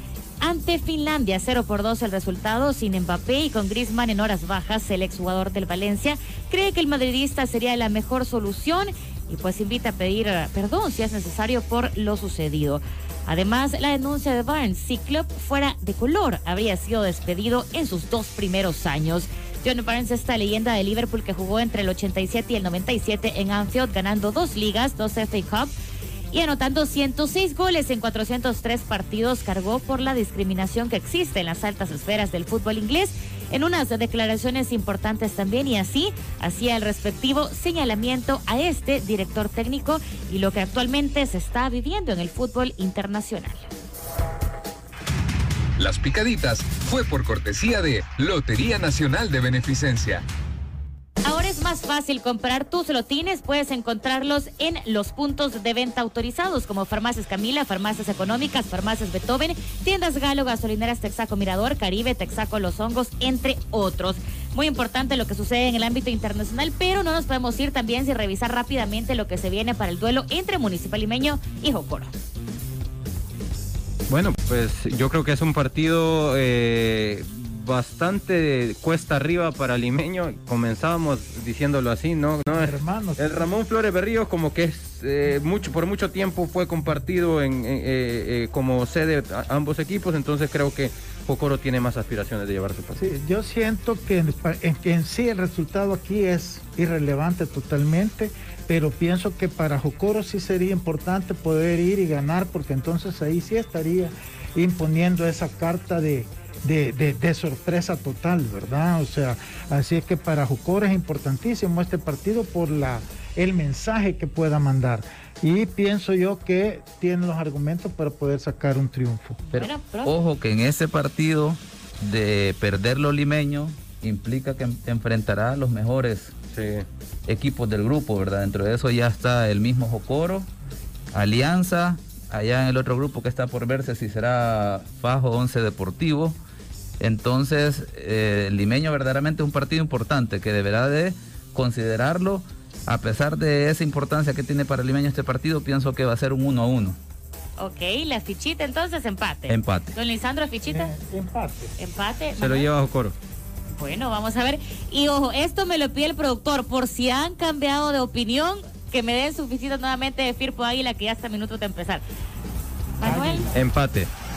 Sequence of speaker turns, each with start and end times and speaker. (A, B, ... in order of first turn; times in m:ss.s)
0:00.4-0:25.7 A
0:26.3-0:43.7 A
0:45.8-0:50.2 B
0:51.2-1:12.1 A
1:14.1-1:33.0 C
1:22.5-1:23.5 D
1:33.0-1:59.4 D
1:59.5-2:00.1 A
1:59.5-2:06.4 E
2:06.5-2:06.9 C
2:07.3-2:10.5 E
2:11.1-2:16.4 E
2:17.0-2:27.0 E
2:27.6-2:30.9 A
2:29.5-2:30.0 E
2:30.7-2:31.7 D
2:31.8-2:32.7 A
2:32.4-2:33.2 C
2:33.8-2:42.0 A
2:43.0-2:43.5 A
2:43.0-2:43.5 D
2:43.5-2:44.1 C